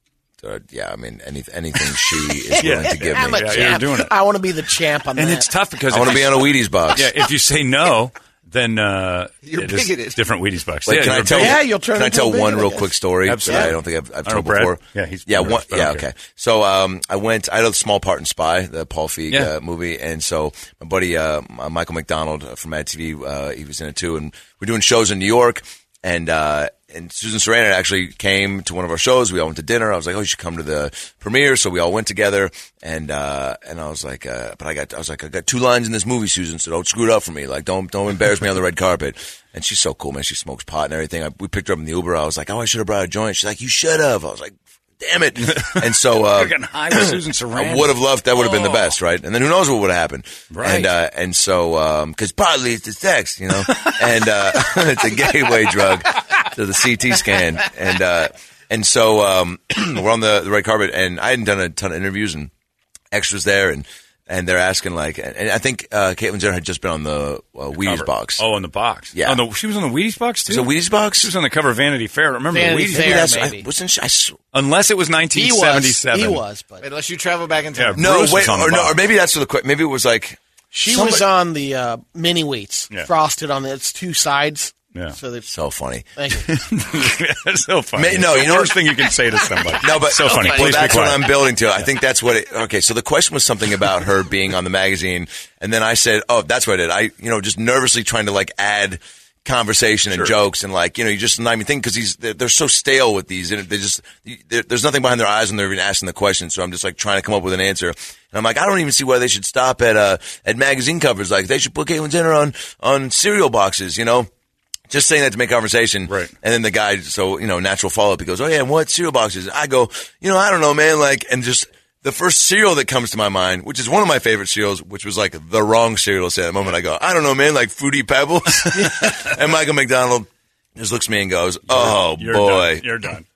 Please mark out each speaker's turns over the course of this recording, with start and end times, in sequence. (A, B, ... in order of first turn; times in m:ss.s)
0:00.4-0:03.8 A
0:02.5-0:05.5 B
0:02.6-0:04.2 C
0:05.2-0:11.6 C
0:05.9-0:07.1 A
0:09.4-0:10.2 D
0:10.8-1:02.5 A
0:11.3-0:12.9 B
0:13.2-0:16.0 C
0:45.5-0:47.9 C
0:50.5-0:50.9 C
0:53.7-0:54.0 C
1:03.1-1:08.4 A
1:07.8-1:13.3 C
1:09.1-1:09.4 A
1:10.4-1:11.3 A
1:12.5-1:13.7 B
1:12.9-1:14.4 A
1:14.5-1:16.4 C
1:15.3-1:16.8 B
1:16.8-1:18.0 D
1:17.7-1:19.0 C
1:18.0-1:21.2 A
1:20.7-1:25.4 B
1:25.5-1:26.0 A
1:26.2-1:26.5 B
1:26.4-1:31.4 C
1:28.0-1:29.1 A
1:29.8-1:54.3 A
1:30.3-1:31.0 D
1:54.9-2:12.9 A
2:11.7-2:13.2 C